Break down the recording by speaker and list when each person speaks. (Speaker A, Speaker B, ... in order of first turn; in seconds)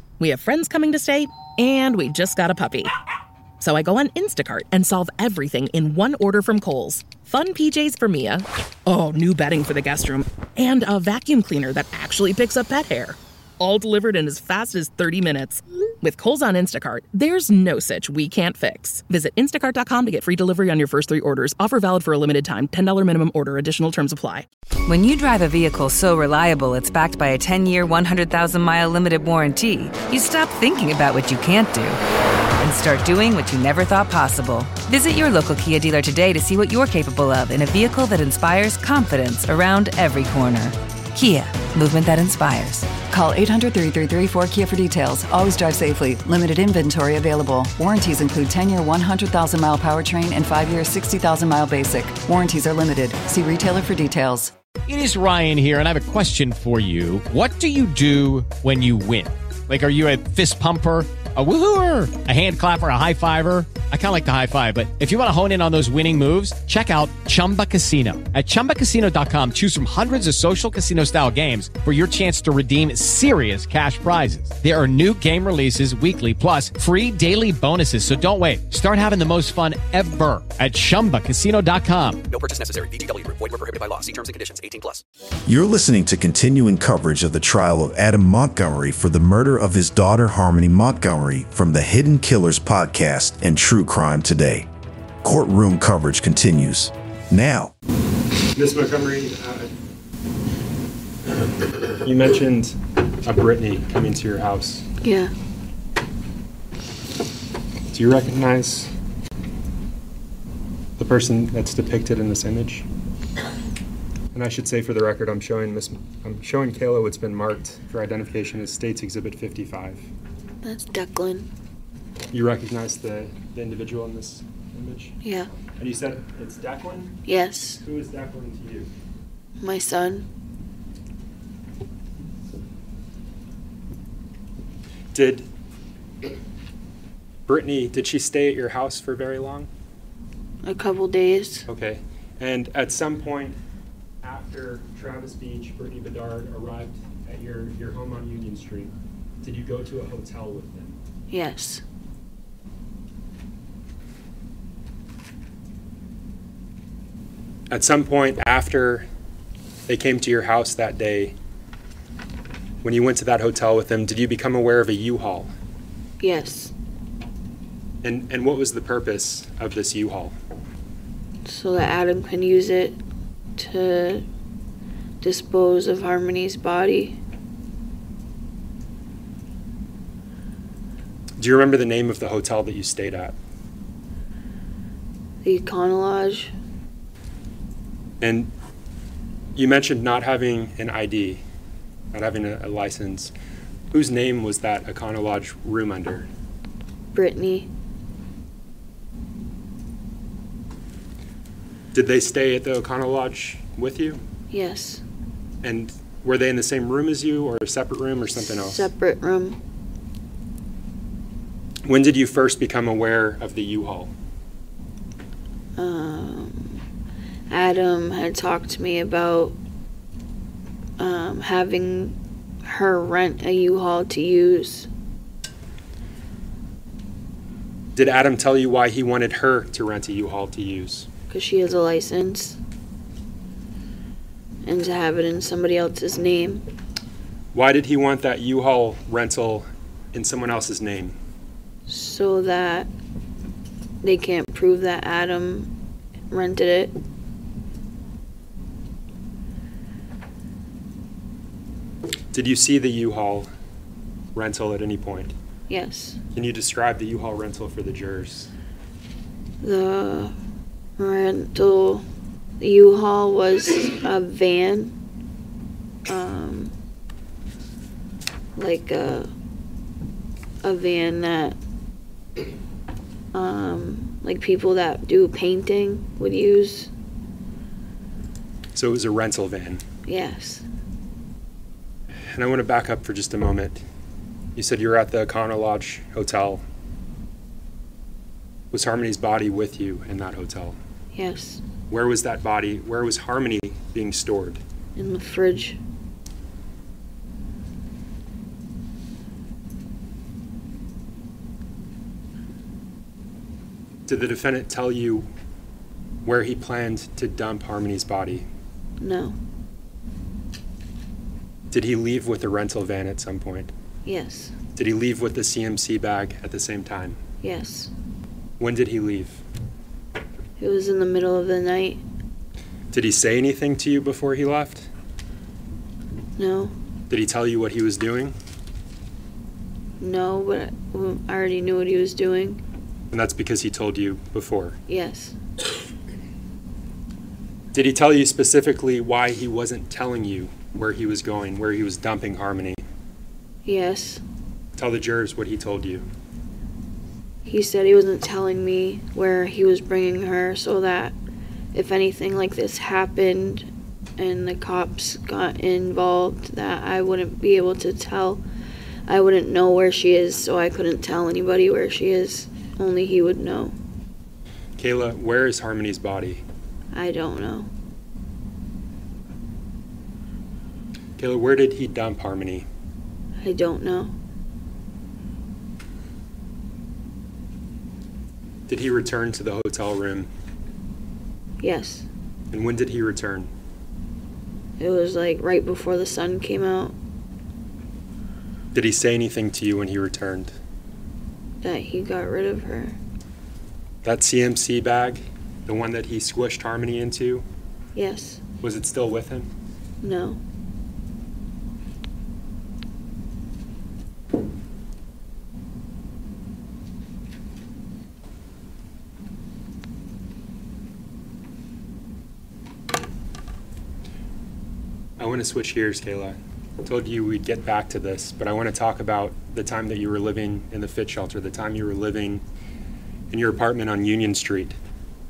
Speaker A: 0.2-2.9, 3.6-24.5
Speaker B: 24.9-32.0, 32.6-43.0
Speaker C: 43.0-54.5
Speaker D: 54.9-82.2
Speaker E: 82.3-85.0
Speaker F: 85.5-94.7, 95.2-97.7
Speaker G: 98.5-99.7, 102.0-104.9, 107.9-108.9, 111.0-112.9, 114.3-120.0, 122.3-125.2, 125.8-127.2, 127.8-128.9, 135.1-135.5, 137.5-139.7, 141.7-143.6, 144.2-148.9, 149.4-151.0, 157.7-159.1, 159.9-161.3, 162.8-165.5, 168.0-170.4, 181.4-183.3, 188.2-188.5, 189.6-191.4, 192.1-193.3, 193.9-196.3, 201.9-204.2, 205.6-208.9, 211.8-214.1, 227.9-231.1, 237.5-241.2, 252.3-253.5, 254.3-255.3, 256.4-258.5, 278.8-279.8, 282.3-283.8, 284.6-286.6, 288.7-290.8, 291.9-294.6, 304.1-305.3, 306.2-308.5, 311.7-313.7, 314.8-317.2, 318.6-319.4, 322.9-324.9, 327.1-328.4, 333.1-334.8, 337.7-342.8, 344.8-346.1, 364.8-366.4, 371.2-372.7, 378.7-380.3, 382.5-383.5, 388.7-390.6, 394.0-397.4, 398.6-399.5, 415.2-422.4, 423.3-424.8
Speaker H: 105.0-105.3, 120.6-121.5, 125.2-125.5, 127.3-127.8, 129.6-130.3, 140.6-141.7, 151.3-151.8, 166.2-166.7, 171.4-173.0, 173.6-174.2, 175.2-177.2, 185.4-186.5, 197.1-197.7, 204.5-205.0, 208.4-209.6, 215.8-216.8, 217.5-219.6, 221.0-224.9, 231.3-232.6, 234.6-236.6, 241.9-242.9, 244.0-245.7, 246.3-246.9, 255.7-256.2, 259.6-260.4, 261.0-262.1, 262.6-264.9, 266.1-266.7, 268.6-269.3, 270.6-271.6, 273.3-276.9, 280.1-280.6, 291.1-291.6, 295.0-295.8, 309.0-309.4, 314.1-314.5, 317.4-317.9, 320.6-322.0, 326.4-326.7, 330.0-332.6, 334.9-335.4, 343.6-344.2, 347.4-351.2, 351.7-353.7, 354.2-358.4, 359.1-363.8, 366.9-367.7, 373.4-374.1, 381.6-382.1, 384.8-386.9, 391.6-393.0, 397.9-398.4, 400.0-400.4